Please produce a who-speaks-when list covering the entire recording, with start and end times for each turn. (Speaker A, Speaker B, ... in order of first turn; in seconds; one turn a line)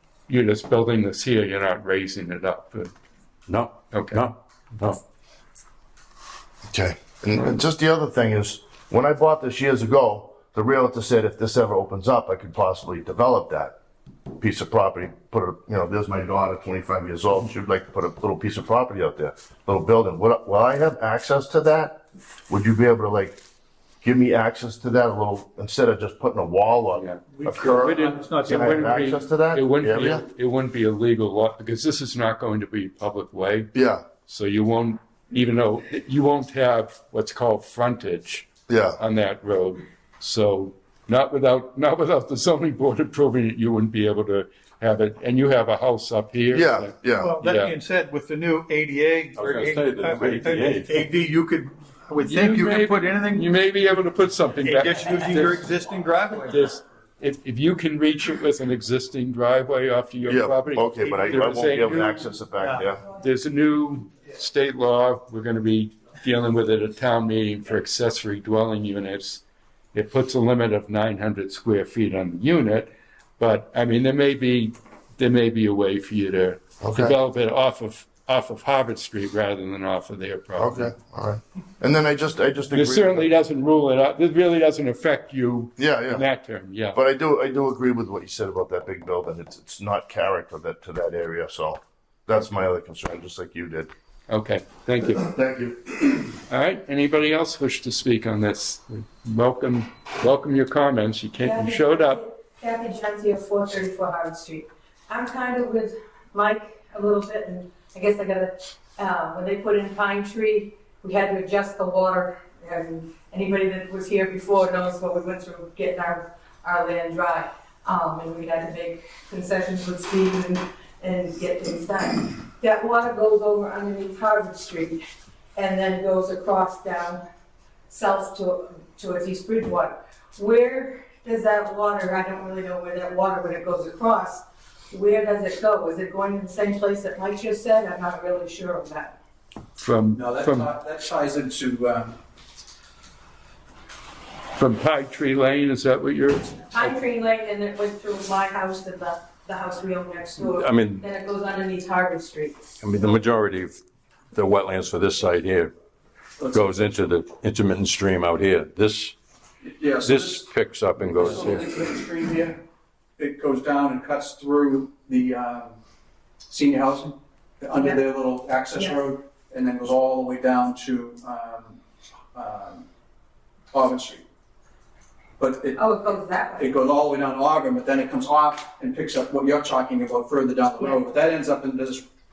Speaker A: 0.3-2.9
Speaker B: 3.5-5.0
Speaker A: 3.9-4.2
Speaker C: 6.7-13.7
Speaker C: 14.4-23.4
Speaker C: 24.0-30.2
Speaker A: 26.9-47.7
Speaker D: 27.3-28.6
Speaker C: 33.8-34.0
Speaker C: 38.7-39.0
Speaker C: 46.5-47.3
Speaker D: 47.2-53.6
Speaker B: 49.3-50.9
Speaker A: 52.2-55.6
Speaker D: 54.6-56.7
Speaker A: 56.5-62.3
Speaker C: 60.2-63.0
Speaker A: 63.1-69.4
Speaker A: 69.9-80.9
Speaker C: 76.8-77.2
Speaker C: 80.6-83.3
Speaker A: 82.7-87.0
Speaker C: 85.8-86.3
Speaker C: 86.9-93.9
Speaker A: 94.3-95.2
Speaker C: 95.2-96.1
Speaker A: 96.5-102.2
Speaker E: 101.4-125.0
Speaker E: 125.6-127.2
Speaker E: 127.9-139.2
Speaker A: 139.8-140.7
Speaker F: 140.1-142.2
Speaker A: 144.6-146.9
Speaker E: 146.7-152.8
Speaker B: 150.4-151.1
Speaker B: 152.8-153.8
Speaker B: 154.3-155.7
Speaker F: 156.4-156.8
Speaker B: 156.5-159.1
Speaker F: 159.6-160.5
Speaker B: 160.0-161.7
Speaker F: 161.2-162.6
Speaker F: 163.2-165.8
Speaker F: 166.5-171.8
Speaker E: 167.8-168.0
Speaker E: 168.8-169.0
Speaker F: 172.3-172.8
Speaker F: 173.7-174.2
Speaker F: 175.4-182.0
Speaker E: 175.8-176.7